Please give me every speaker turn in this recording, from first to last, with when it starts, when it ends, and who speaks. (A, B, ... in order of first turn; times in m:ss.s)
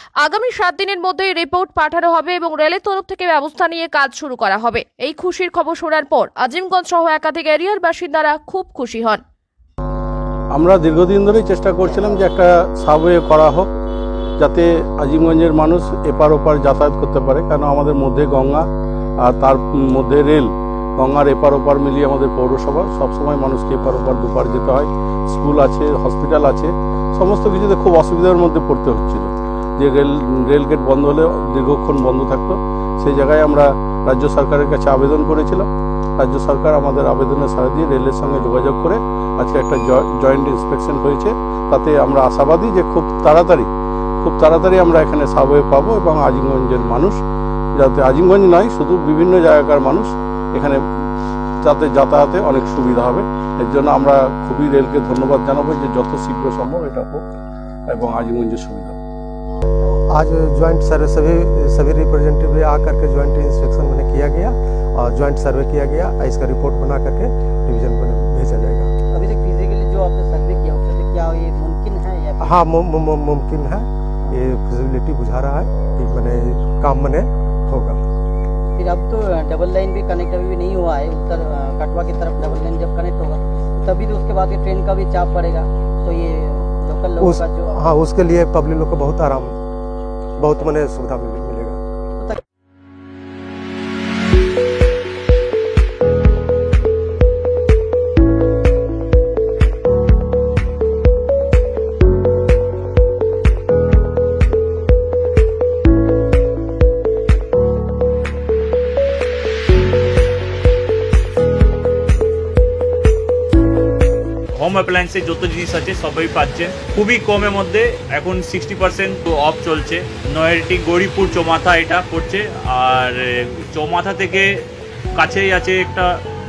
0:00.2-0:09.2 A
0:10.5-0:13.7 B
0:14.4-0:18.6 B
0:19.2-0:35.7 B
0:36.2-0:43.7 B
0:44.2-0:47.2 B
0:47.8-0:50.8 B
0:51.6-0:57.2 B
0:57.9-0:59.0 B
0:59.8-1:08.9 C
1:09.1-1:12.6 D
1:12.4-1:18.0 C
1:18.8-1:27.7 D
1:27.2-1:29.5 C
1:30.4-1:31.8 C
1:54.6-2:04.5 E
2:05.2-2:06.1 E